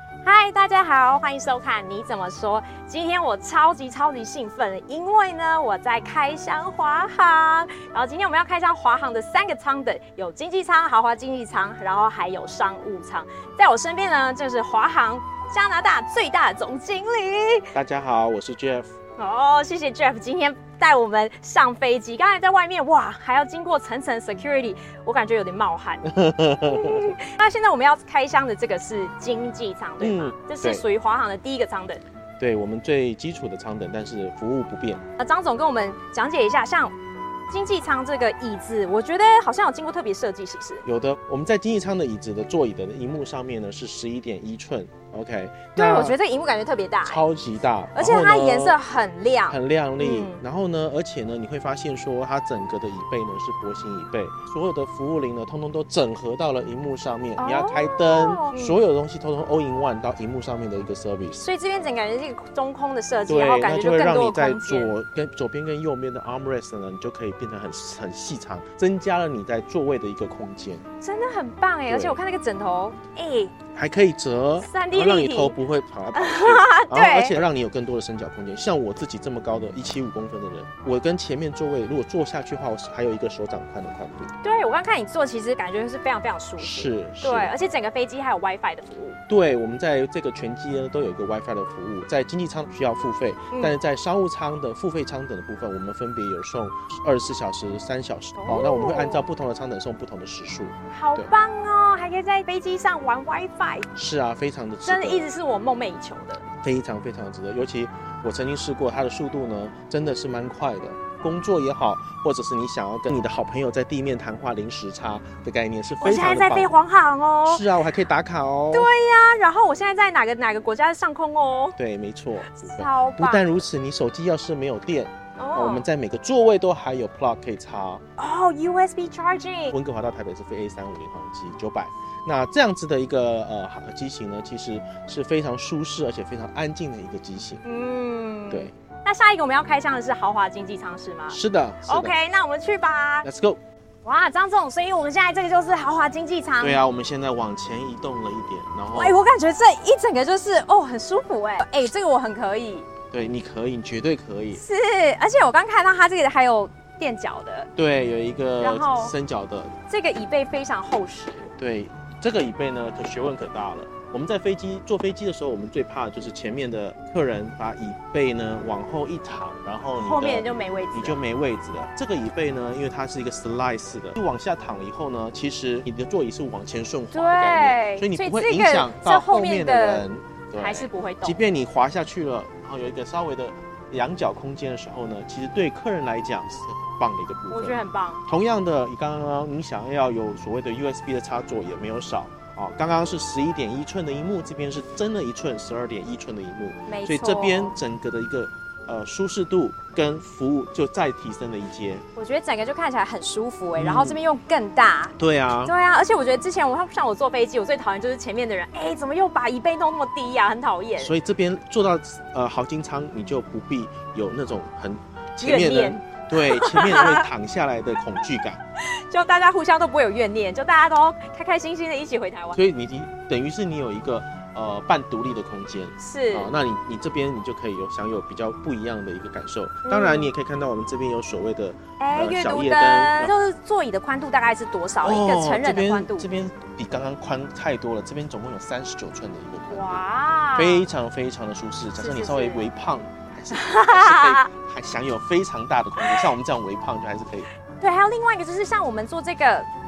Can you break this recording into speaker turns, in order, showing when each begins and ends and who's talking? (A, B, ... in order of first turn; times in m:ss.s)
0:00.2-0:17.7 A
0:17.7-0:18.9 B
0:19.2-0:26.0 A
0:26.0-0:27.2 B
0:26.6-0:32.0 A
0:30.0-0:30.8 B
0:32.4-0:35.0 B
0:35.2-0:36.9 A
0:37.5-0:40.8 A
0:40.8-0:46.2 B
0:45.8-0:47.2 A
0:47.0-0:48.8 B
0:47.9-0:50.4 A
0:49.5-1:01.5 B
0:57.4-0:58.7 A
1:01.4-1:04.9 A
1:03.3-1:10.8 B
1:11.0-1:13.5 A
1:11.9-1:12.2 B
1:13.7-1:24.3 B
1:14.6-1:15.6 A
1:16.1-1:17.4 A
1:24.4-1:29.2 A
1:26.6-1:27.5 B
1:29.3-1:41.3 B
1:38.4-1:39.2 A
1:40.9-1:43.9 A
1:43.9-1:45.3 B
1:44.8-1:46.4 A
1:46.6-1:56.7 B
1:56.0-1:57.6 A
1:57.4-1:58.9 B
1:58.7-2:01.8 A
2:01.8-2:08.0 B
2:02.5-2:03.6 A
2:05.4-2:05.9 A
2:08.2-2:09.8 A
2:09.7-2:17.6 B
2:17.6-2:23.3 A
2:21.3-2:22.2 B
2:23.2-2:23.6 B
2:24.0-2:26.8 A
2:26.6-2:29.2 B
2:28.9-2:32.8 A
2:33.1-2:34.6 B
2:34.5-2:37.7 A
2:37.8-2:39.7 B
2:38.6-2:39.1 A
2:39.9-2:41.5 A
2:41.6-3:22.0 B
2:50.0-2:51.2 A
2:57.1-3:00.0 A
3:00.6-3:01.4 A
3:07.5-3:08.2 A
3:16.9-3:17.7 A
3:22.2-3:31.1 A
3:23.8-3:24.2 B
3:25.2-3:25.7 B
3:31.0-3:38.6 B
3:35.4-3:37.3 A
3:38.8-3:42.6 A
3:42.5-3:53.3 B
3:46.0-3:46.5 A
3:49.9-3:50.3 A
3:52.0-3:56.3 A
3:55.0-4:07.5 B
3:59.7-4:00.8 A
4:02.0-4:02.6 A
4:03.5-4:04.5 A
4:06.0-4:06.3 A
4:07.8-4:09.7 A